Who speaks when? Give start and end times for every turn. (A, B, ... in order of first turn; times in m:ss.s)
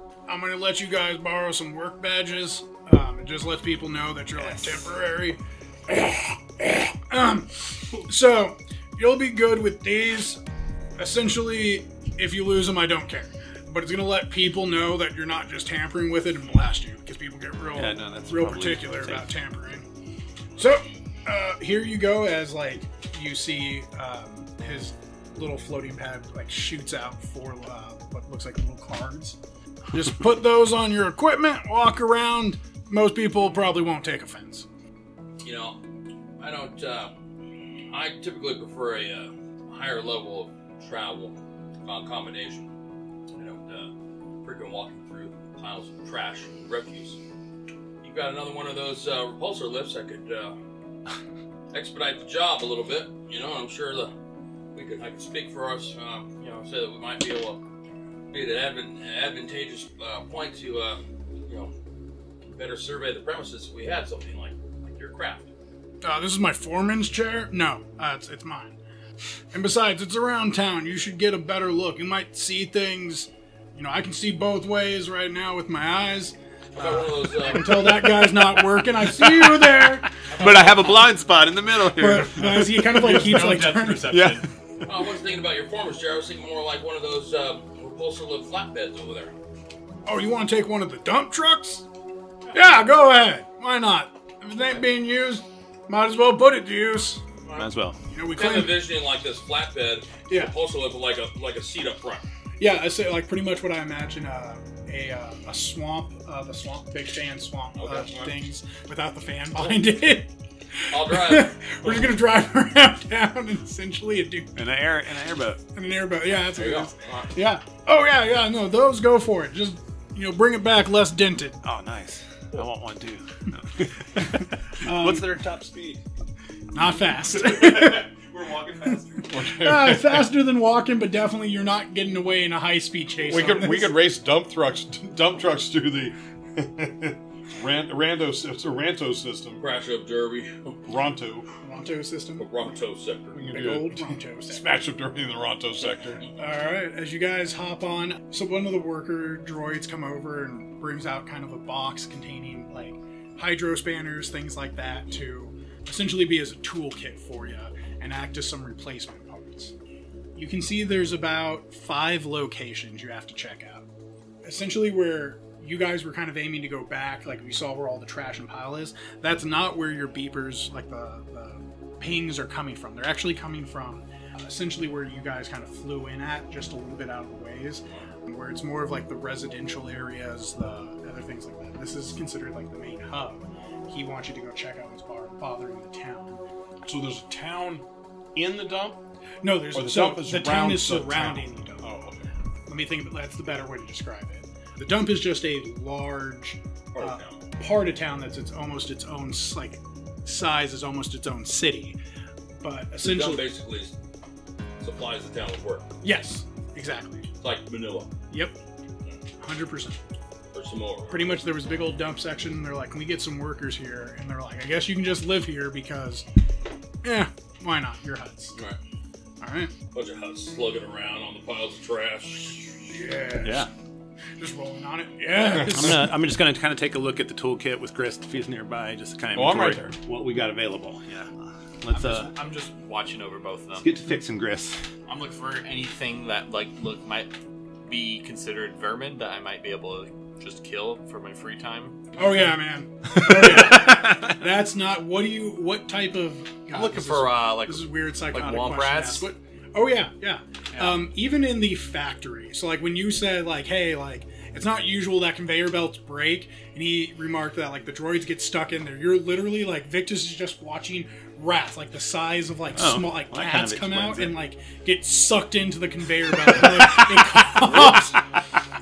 0:00.3-0:10.4 A
0:11.0-0:19.9 A
0:17.7-0:19.3 B
0:20.6-0:29.4 A
0:29.9-0:34.7 A
0:35.4-0:35.8 C
0:36.4-0:37.1 C
0:37.9-0:42.7 C
0:43.3-0:43.9 C
0:44.4-0:47.2 C
0:48.0-0:50.6 C
0:51.7-0:54.1 C
0:54.7-0:57.6 C
0:58.3-1:01.7 C
1:02.5-1:05.5 C
1:06.0-1:08.8 A
1:09.5-1:20.2 A
1:16.8-1:18.2 C
1:18.3-1:24.5 B
1:20.3-1:20.8 C
1:21.9-1:24.2 A
1:22.9-1:24.4 D
1:24.8-1:29.3 C
1:30.0-1:31.8 A
1:32.5-1:37.2 A
1:37.6-1:38.0 B
1:38.1-1:38.8 A
1:38.3-1:42.2 C
1:42.6-1:54.7 A
1:47.8-1:48.4 C
1:50.9-1:52.1 C
1:54.6-1:55.6 B
1:55.7-2:01.6 A
1:56.6-1:57.3 C
2:01.6-2:06.0 B
2:04.8-2:05.4 A
2:06.7-2:08.1 A
2:07.3-2:09.3 B
2:09.2-2:14.0 A
2:09.3-2:10.3 E
2:13.3-2:19.6 E
2:19.6-2:20.8 C
2:20.9-2:21.5 E
2:21.6-2:22.4 A
2:22.4-2:23.4 C
2:23.3-2:26.2 E
2:23.4-2:24.8 A
2:26.4-2:39.7 A
2:40.4-2:43.8 A
2:44.4-3:06.4 A
3:06.8-3:07.8 E
3:08.3-3:09.0 E
3:09.4-3:11.9 A
3:09.7-3:12.3 E
3:12.7-3:22.0 A
3:16.9-3:17.4 C
3:22.6-3:23.4 A
3:23.0-3:23.9 C
3:24.8-3:25.9 C
3:26.0-3:27.3 A
3:27.4-3:28.1 C
3:28.3-3:28.6 A
3:29.4-3:30.0 A
3:30.5-3:31.4 C
3:31.1-3:36.3 A
3:37.0-3:38.6 A
3:39.4-3:39.7 A
3:39.9-3:42.8 C
3:42.9-3:43.7 A
3:43.4-3:43.7 B
3:44.4-3:46.1 A
3:45.6-3:52.3 B
3:49.3-3:49.9 E
3:51.9-3:53.9 D
3:53.8-3:54.8 B
3:55.1-3:57.3 D
3:57.9-4:02.0 D
4:02.2-4:28.2 A
4:03.2-4:04.4 B
4:06.7-4:09.3 D
4:10.7-4:11.0 D
4:22.7-4:24.4 B